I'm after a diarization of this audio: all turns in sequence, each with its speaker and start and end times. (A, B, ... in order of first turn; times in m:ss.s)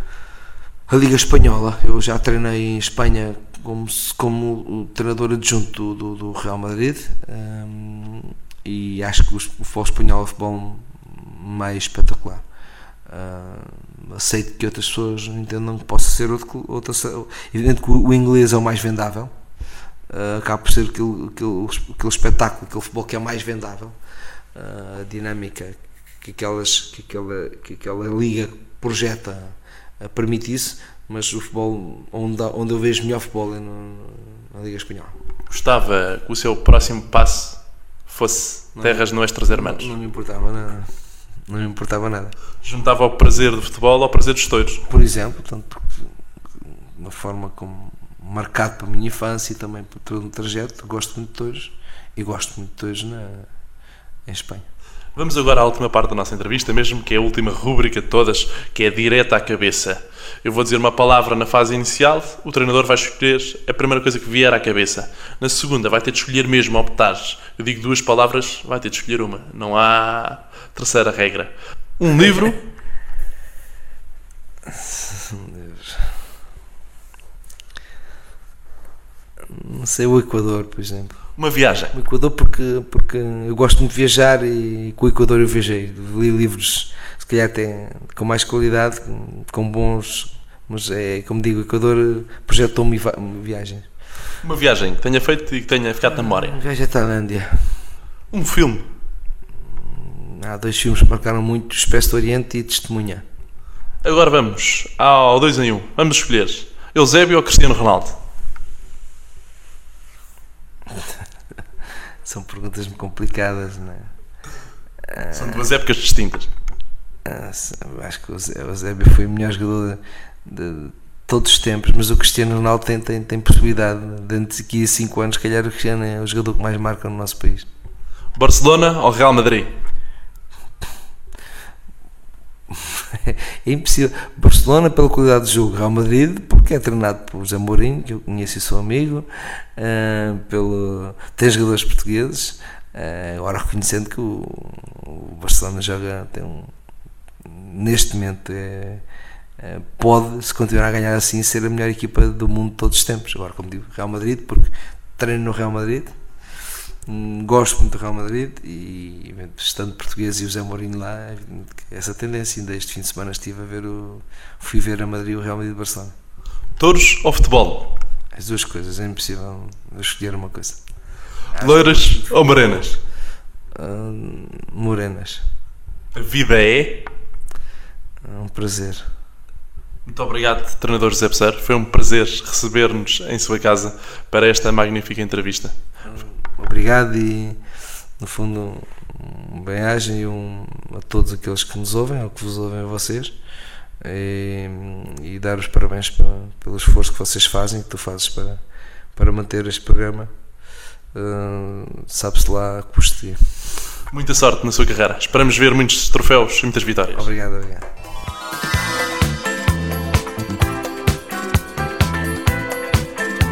0:00.9-0:12.4 A
0:13.1-0:19.3 A
0:20.1-0:23.9 A
0:24.6-0:35.2 A
0:35.5-0:39.9 B
0:38.8-0:40.9 A
0:41.5-0:42.3 A
0:42.6-0:44.8 B
0:44.9-0:46.0 A
0:46.6-0:53.5 A
0:54.3-0:54.7 A
0:55.1-1:12.6 B
1:14.6-1:16.2 A
1:19.5-1:21.2 A
1:21.4-1:21.9 B
1:21.9-1:33.9 A
1:34.4-1:36.6 B
1:36.1-1:37.8 A
1:38.3-1:38.9 B
1:39.8-1:43.2 A
1:44.0-1:48.2 B
1:50.9-1:51.2 A
1:52.2-1:54.1 A
1:55.0-1:55.6 A
1:55.3-1:56.5 B
1:57.2-2:07.7 A
2:08.3-2:09.7 B
2:12.7-2:26.7 A
2:27.4-2:29.0 A
2:29.6-2:36.1 A
2:37.1-2:46.1 A
2:46.8-2:47.9 B
2:48.3-2:50.8 A
2:51.5-2:53.0 A
2:51.6-2:53.0 B
2:53.7-2:55.4 A
2:56.1-2:57.1 B
2:58.2-2:59.1 A
3:00.0-3:05.7 B
3:06.0-3:07.6 A
3:08.2-3:13.3 A
3:14.0-3:18.6 A
3:19.2-3:20.3 A
3:21.1-3:23.6 A
3:24.1-3:27.3 B
3:27.1-3:27.9 A